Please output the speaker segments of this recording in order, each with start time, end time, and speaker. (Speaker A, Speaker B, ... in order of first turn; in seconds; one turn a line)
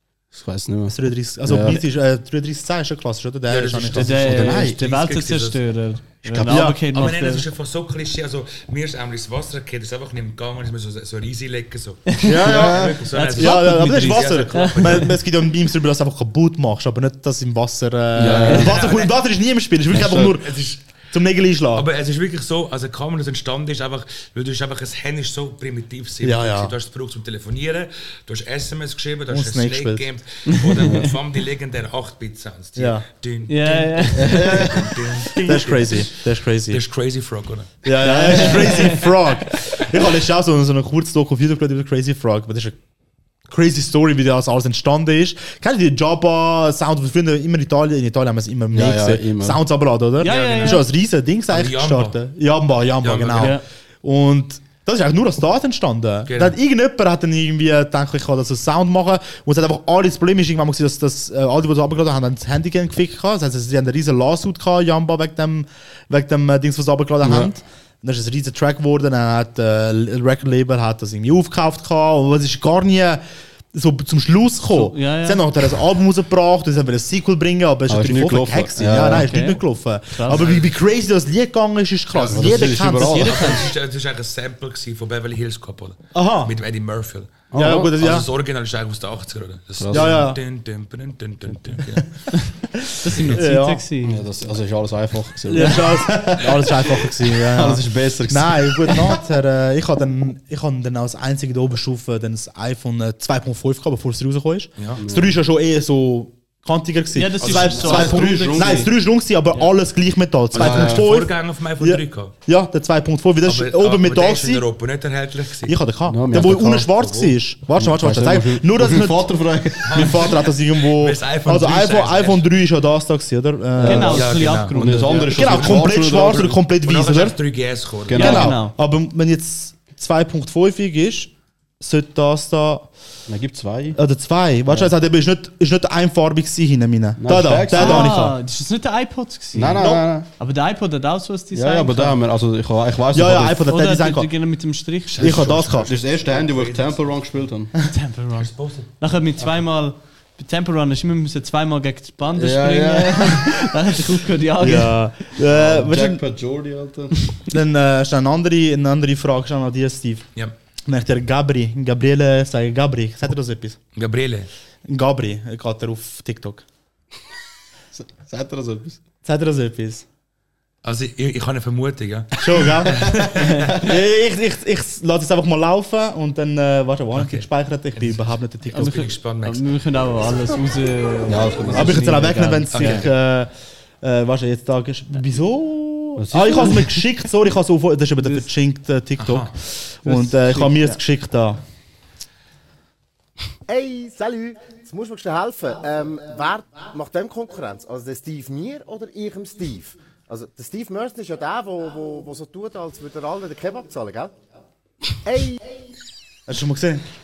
Speaker A: 0.3-1.8
Speaker B: 0.9-4.7
Speaker C: 3.5-5.6
Speaker D: 3.9-7.5
Speaker A: 4.2-4.7
Speaker B: 6.4-6.8
Speaker C: 6.8-15.2
Speaker D: 12.1-12.7
Speaker B: 12.2-21.9
Speaker A: 12.4-13.1
Speaker D: 13.2-15.2
Speaker A: 18.1-18.7
Speaker C: 18.5-19.2
Speaker A: 19.9-20.3
Speaker C: 19.9-20.8
Speaker C: 21.7-39.1
Speaker B: 26.2-26.7
Speaker B: 29.3-30.1
Speaker D: 30.5-31.1
Speaker B: 32.8-33.0
Speaker D: 33.5-34.7
Speaker A: 34.1-35.0
Speaker B: 35.4-36.8
Speaker B: 37.8-42.7
Speaker D: 38.0-39.1
Speaker B: 43.5-73.2
Speaker A: 48.7-49.6
Speaker D: 50.2-50.9
Speaker C: 50.2-50.8
Speaker C: 51.5-52.2
Speaker C: 53.0-53.6
Speaker D: 53.4-53.6
Speaker C: 56.3-56.5
Speaker A: 67.2-67.5
Speaker B: 73.7-83.5
Speaker D: 74.7-75.4
Speaker A: 77.9-79.3
Speaker D: 79.1-79.6
Speaker D: 80.1-80.5
Speaker C: 80.3-80.7
Speaker C: 82.1-92.2
Speaker A: 82.2-83.6
Speaker D: 82.9-83.7
Speaker B: 86.1-86.5
Speaker A: 87.5-88.0
Speaker B: 87.5-88.3
Speaker A: 89.8-90.2
Speaker B: 89.9-90.4
Speaker D: 92.3-94.2
Speaker B: 92.9-93.8
Speaker A: 94.0-99.2
Speaker B: 95.5-114.7
Speaker D: 95.6-95.8
Speaker C: 104.8-105.0
Speaker A: 105.0-105.4
Speaker D: 107.1-108.9
Speaker C: 107.4-108.2
Speaker A: 107.4-108.9
Speaker C: 110.5-112.3
Speaker A: 110.5-111.0
Speaker C: 113.4-115.8
Speaker B: 115.7-124.4
Speaker A: 116.1-116.9
Speaker C: 116.3-117.4
Speaker A: 117.8-120.4
Speaker C: 119.8-122.5
Speaker A: 123.8-126.6
Speaker D: 123.8-125.5
Speaker C: 124.0-128.4
Speaker B: 125.3-127.4
Speaker A: 128.1-128.6
Speaker B: 128.1-132.9
Speaker D: 128.1-128.7
Speaker A: 133.3-134.0
Speaker B: 133.9-138.4
Speaker A: 134.7-134.9
Speaker A: 137.2-138.2
Speaker D: 137.7-142.2
Speaker A: 139.5-140.3
Speaker B: 139.8-140.0
Speaker A: 141.5-143.7
Speaker B: 143.1-144.3
Speaker D: 143.7-145.4
Speaker C: 145.1-147.4
Speaker B: 145.2-145.9
Speaker A: 145.8-147.7
Speaker D: 147.9-155.0
Speaker C: 148.3-149.4
Speaker A: 152.3-153.6
Speaker B: 154.6-156.2
Speaker A: 155.4-157.2
Speaker B: 157.5-160.3
Speaker B: 160.9-163.8
Speaker C: 163.9-164.5
Speaker B: 164.9-166.6
Speaker A: 167.9-169.0
Speaker B: 169.2-170.0
Speaker C: 170.8-173.9
Speaker B: 172.4-173.2
Speaker A: 173.0-173.6
Speaker B: 173.8-179.0
Speaker C: 177.1-179.7
Speaker D: 178.7-183.1
Speaker A: 181.3-182.1
Speaker B: 181.7-183.5
Speaker C: 182.7-183.1
Speaker B: 184.0-191.6
Speaker A: 186.2-186.9
Speaker D: 188.2-188.4
Speaker C: 189.2-189.5
Speaker D: 190.0-191.0
Speaker E: 193.7-204.3
Speaker E: 205.2-205.6
Speaker B: 206.5-207.0